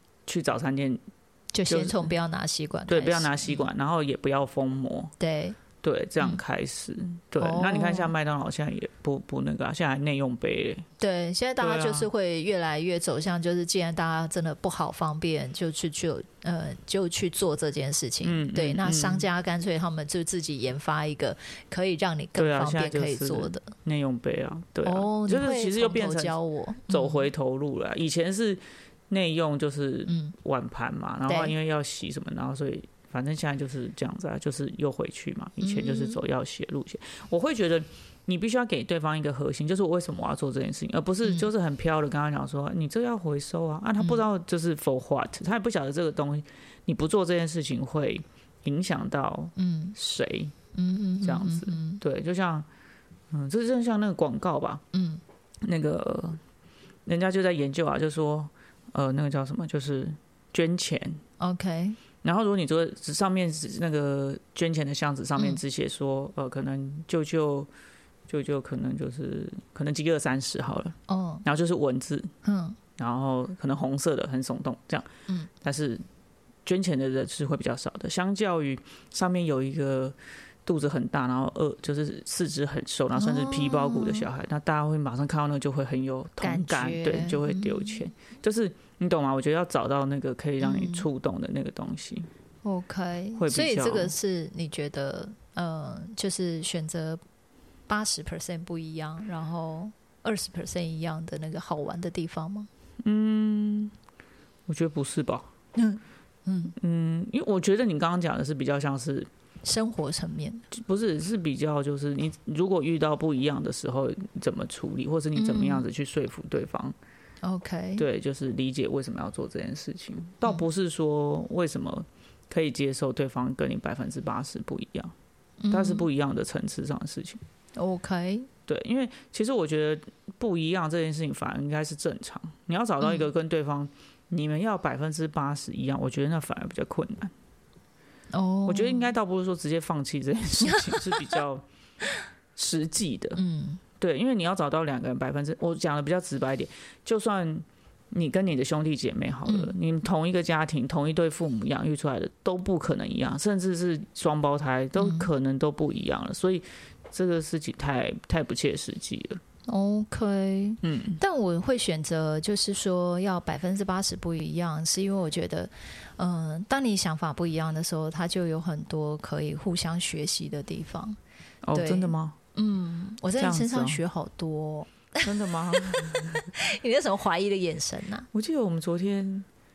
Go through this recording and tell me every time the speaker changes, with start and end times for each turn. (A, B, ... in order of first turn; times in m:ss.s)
0:00.2-0:01.0 A
0:01.5-0:03.7 B
0:01.7-0:02.1 A
0:02.9-0:05.1 A
0:05.2-0:05.6 B
0:05.8-0:10.8 A
0:07.4-0:08.1 B
0:11.0-0:23.7 B
0:11.6-0:12.1 A
0:18.2-0:19.2 A
0:22.4-0:26.3 A
0:24.8-0:27.3 B
0:26.9-0:50.6 A
0:30.1-0:30.3 B
0:31.2-0:31.5 B
0:35.6-0:36.2 B
0:49.6-0:50.0 B
0:50.7-0:52.0 B
0:51.2-0:52.6 A
0:53.3-0:54.8 A
0:54.9-0:55.2 B
0:55.6-0:56.4 A
0:57.0-1:01.2 A
1:01.4-1:02.0 B
1:02.2-1:07.7 A
1:08.3-1:12.3 A
1:11.1-1:11.4 B
1:12.4-1:12.8 B
1:13.0-1:15.1 A
1:15.6-1:16.0 A
1:16.6-1:32.3 A
1:23.1-1:24.3 B
1:26.4-1:28.0 B
1:30.6-1:31.1 B
1:32.6-1:37.2 B
1:33.4-1:34.1 A
1:37.9-1:42.7 B
1:43.0-1:43.9 A
1:44.7-1:45.5 A
1:45.7-1:46.7 B
1:46.8-1:49.3 A
1:49.6-1:50.6 B
1:50.7-1:56.9 A
1:55.3-1:55.8 B
1:57.4-1:58.0 B
1:58.0-2:05.1 A
2:05.6-2:06.1 B
2:05.7-2:07.4 A
2:07.8-2:08.5 B
2:08.7-2:17.3 A
2:13.0-2:13.3 B
2:18.3-2:19.1 B
2:18.7-2:21.6 A
2:20.6-2:21.4 B
2:22.6-2:23.4 A
2:23.4-2:23.8 B
2:24.0-2:39.4 A
2:29.4-2:29.7 B
2:35.0-2:35.3 B
2:39.7-2:51.2 B
2:40.8-2:41.2 A
2:51.6-2:52.3 A
2:51.7-2:58.3 B
2:53.4-2:54.0 A
2:55.2-2:56.5 A
2:58.3-2:59.4 A